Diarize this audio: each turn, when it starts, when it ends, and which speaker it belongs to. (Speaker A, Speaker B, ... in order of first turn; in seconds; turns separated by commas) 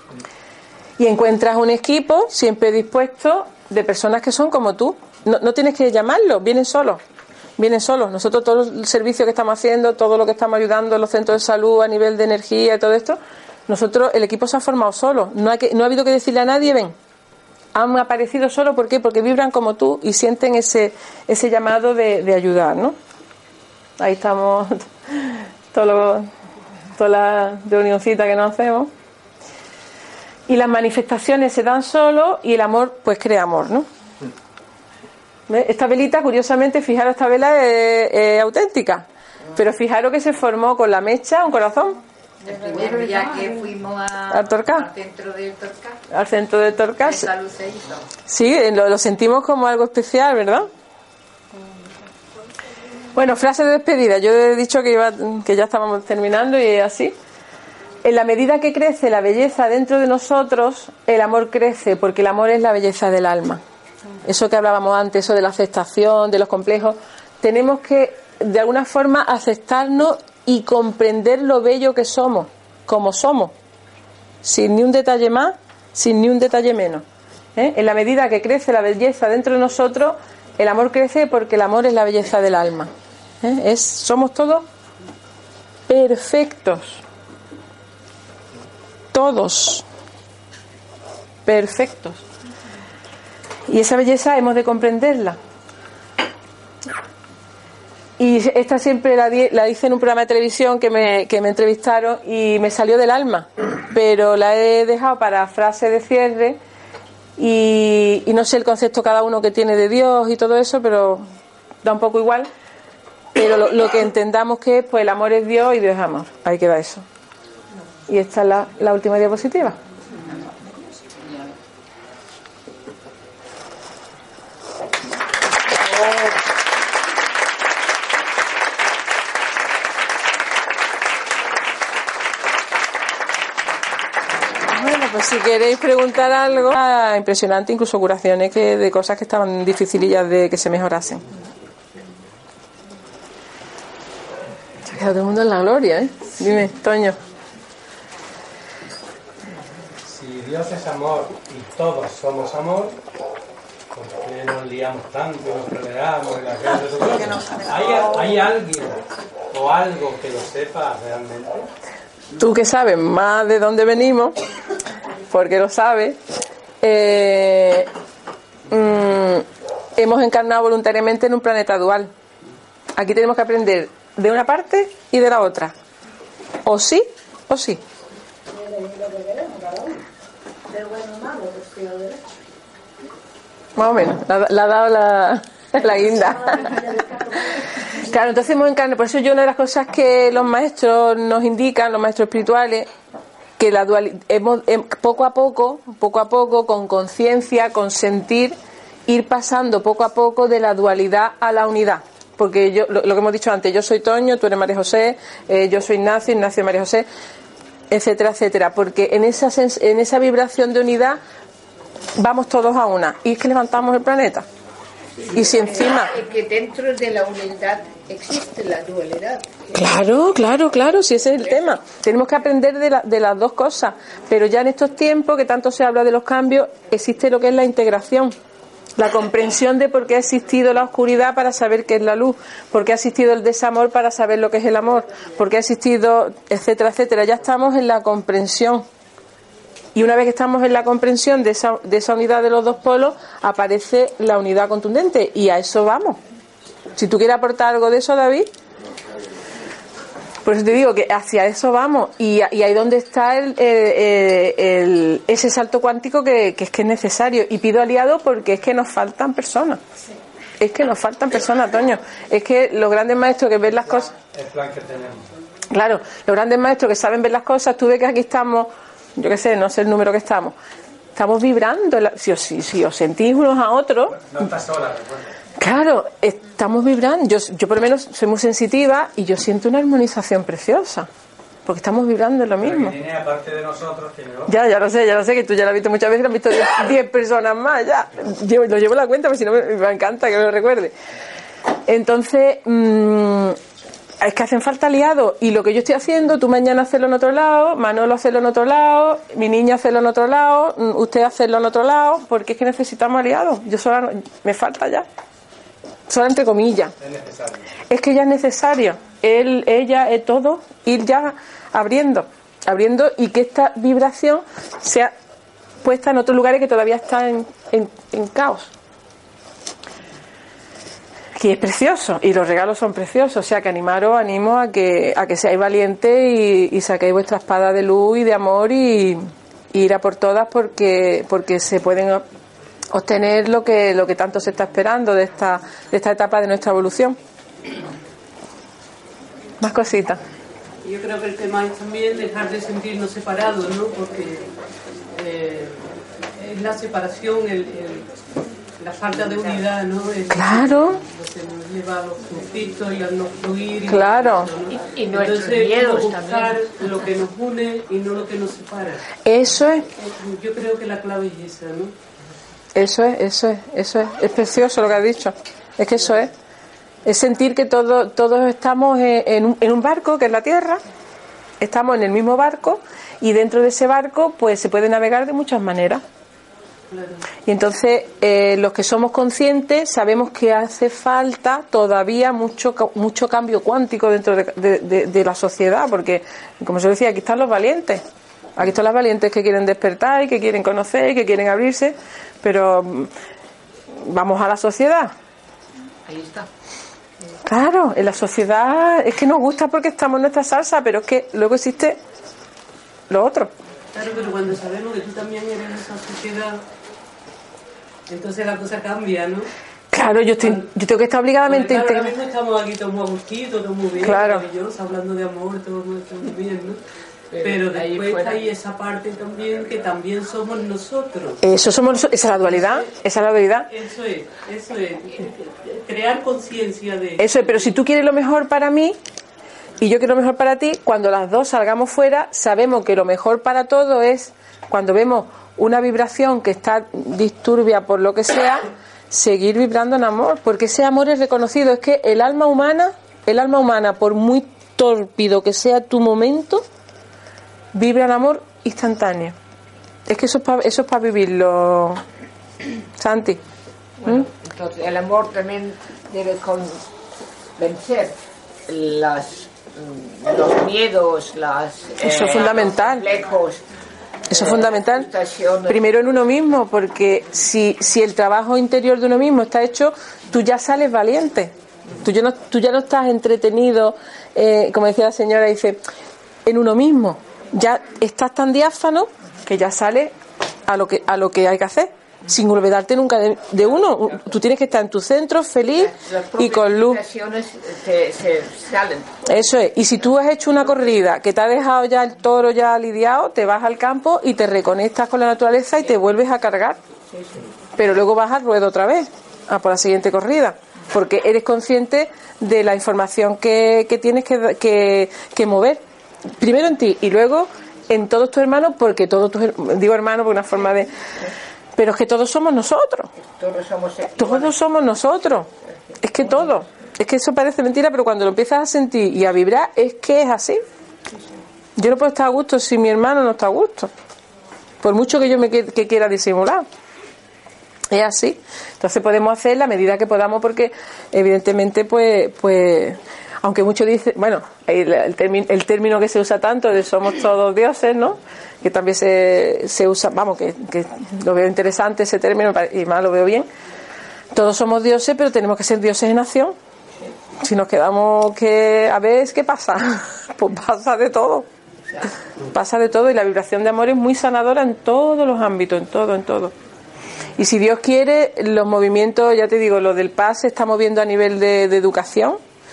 Speaker A: 1.0-7.0, Speaker A: 7.6-16.9, Speaker A: 17.7-22.9, Speaker A: 24.0-26.3, Speaker A: 27.0-28.9, Speaker A: 30.5-33.9, Speaker A: 35.5-42.0, Speaker B: 42.4-46.0, Speaker A: 44.3-44.9, Speaker A: 46.1-47.3, Speaker B: 47.0-48.0, Speaker A: 48.3-50.7, Speaker A: 53.1-57.1, Speaker A: 58.0-63.6, Speaker A: 64.2-73.5, Speaker A: 74.4-77.0, Speaker A: 77.5-82.9, Speaker A: 83.4-84.7, Speaker A: 85.9-87.0, Speaker A: 89.1-89.8, Speaker A: 91.4-92.2, Speaker A: 93.7-95.4, Speaker A: 98.2-106.6, Speaker A: 107.4-111.2, Speaker A: 111.8-112.5, Speaker A: 113.3-117.0, Speaker A: 118.1-119.8, Speaker A: 134.7-141.2, Speaker A: 144.8-147.2, Speaker C: 150.1-152.9, Speaker C: 153.9-159.0, Speaker C: 159.5-161.7, Speaker A: 162.4-164.3, Speaker A: 165.3-166.2, Speaker A: 166.8-167.9, Speaker A: 168.7-172.1, Speaker A: 172.9-175.7, Speaker A: 176.7-177.8, Speaker A: 183.8-186.8, Speaker A: 188.0-192.9, Speaker A: 193.6-198.6, Speaker A: 199.1-207.1, Speaker A: 207.9-211.2, Speaker A: 212.2-214.4, Speaker D: 215.3-219.5, Speaker A: 215.3-216.1, Speaker A: 219.7-228.3, Speaker A: 229.0-238.8, Speaker A: 239.9-246.2, Speaker A: 246.9-248.5, Speaker A: 250.4-259.8, Speaker A: 260.6-264.1, Speaker C: 264.1-265.2, Speaker A: 265.7-270.5, Speaker A: 271.1-274.2, Speaker C: 274.1-275.2, Speaker A: 275.6-281.1, Speaker A: 281.6-283.0, Speaker C: 282.6-284.5, Speaker A: 284.5-290.9, Speaker A: 291.9-293.6, Speaker A: 294.2-305.1, Speaker A: 306.1-306.9, Speaker C: 307.0-307.6, Speaker A: 307.9-315.1, Speaker A: 315.8-318.7, Speaker A: 321.4-329.2, Speaker A: 329.7-332.2, Speaker A: 332.9-337.2, Speaker A: 339.6-340.2, Speaker E: 340.8-344.5, Speaker E: 345.1-345.8, Speaker E: 346.4-348.1, Speaker E: 348.8-359.0, Speaker A: 350.3-351.0, Speaker A: 353.9-354.5, Speaker A: 359.2-359.9, Speaker E: 360.0-361.9, Speaker A: 362.7-366.3, Speaker A: 367.1-370.8, Speaker A: 371.6-376.0, Speaker E: 376.9-377.2, Speaker A: 377.4-388.0, Speaker A: 388.6-393.1, Speaker A: 393.9-395.1, Speaker A: 397.4-402.0, Speaker A: 403.1-403.5, Speaker E: 403.9-406.6, Speaker E: 408.1-409.5, Speaker A: 409.9-412.1, Speaker E: 411.4-416.8, Speaker A: 414.0-414.4, Speaker E: 417.3-421.4, Speaker A: 421.4-423.7, Speaker E: 422.4-422.9, Speaker E: 423.7-427.7, Speaker A: 427.2-429.0, Speaker A: 429.8-446.6, Speaker A: 447.7-449.3, Speaker A: 450.1-452.0, Speaker A: 453.0-453.4, Speaker D: 454.0-456.8, Speaker D: 457.6-458.1, Speaker D: 458.7-463.6, Speaker A: 462.0-463.0, Speaker D: 464.3-465.9, Speaker A: 464.3-465.1, Speaker A: 465.7-475.8, Speaker A: 476.4-480.1, Speaker A: 480.7-487.0, Speaker D: 485.9-489.2, Speaker A: 489.2-496.8, Speaker A: 497.8-505.8, Speaker A: 506.4-510.9, Speaker A: 511.8-513.1, Speaker D: 513.2-514.5, Speaker A: 514.1-515.5, Speaker A: 516.0-520.6, Speaker A: 521.8-523.9, Speaker A: 524.8-526.6, Speaker A: 527.9-543.5, Speaker A: 544.3-546.5, Speaker A: 547.4-551.5, Speaker A: 552.5-556.5, Speaker A: 557.4-562.4